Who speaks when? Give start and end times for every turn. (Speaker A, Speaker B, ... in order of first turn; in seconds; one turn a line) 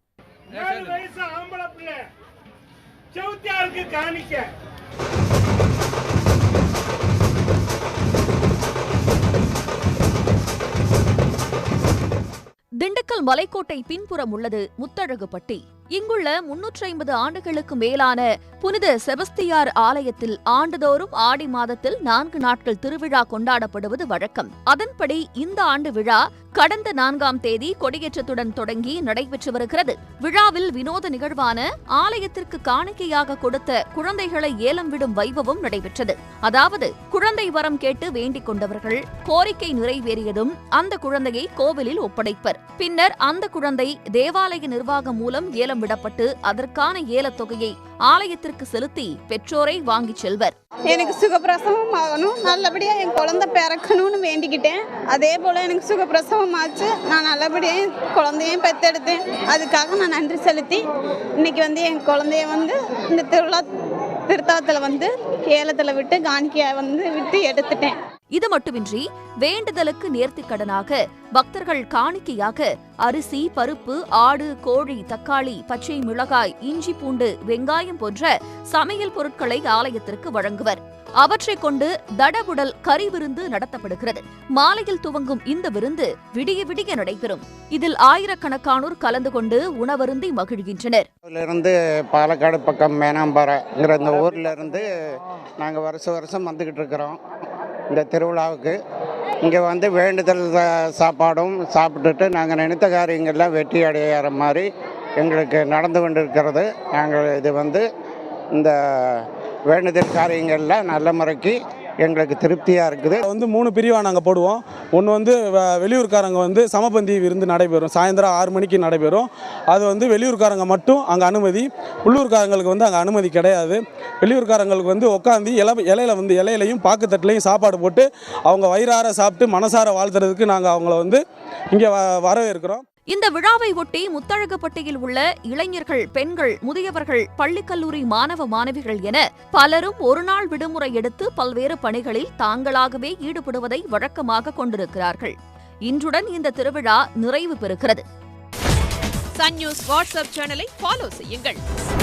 Speaker A: 0.6-2.0
Speaker A: 3.2-4.5
Speaker B: 12.8-50.5
Speaker C: 50.9-60.8
Speaker C: 61.4-63.7
Speaker C: 64.3-68.0
Speaker B: 68.3-91.1
Speaker D: 91.2-94.9
Speaker D: 95.6-97.2
Speaker D: 97.9-98.8
Speaker D: 99.4-104.7
Speaker D: 105.2-107.8
Speaker D: 108.5-113.2
Speaker E: 113.2-131.2
Speaker E: 131.7-132.8
Speaker B: 133.1-145.3
Speaker B: 145.9-148.0
Speaker F: 149.3-151.6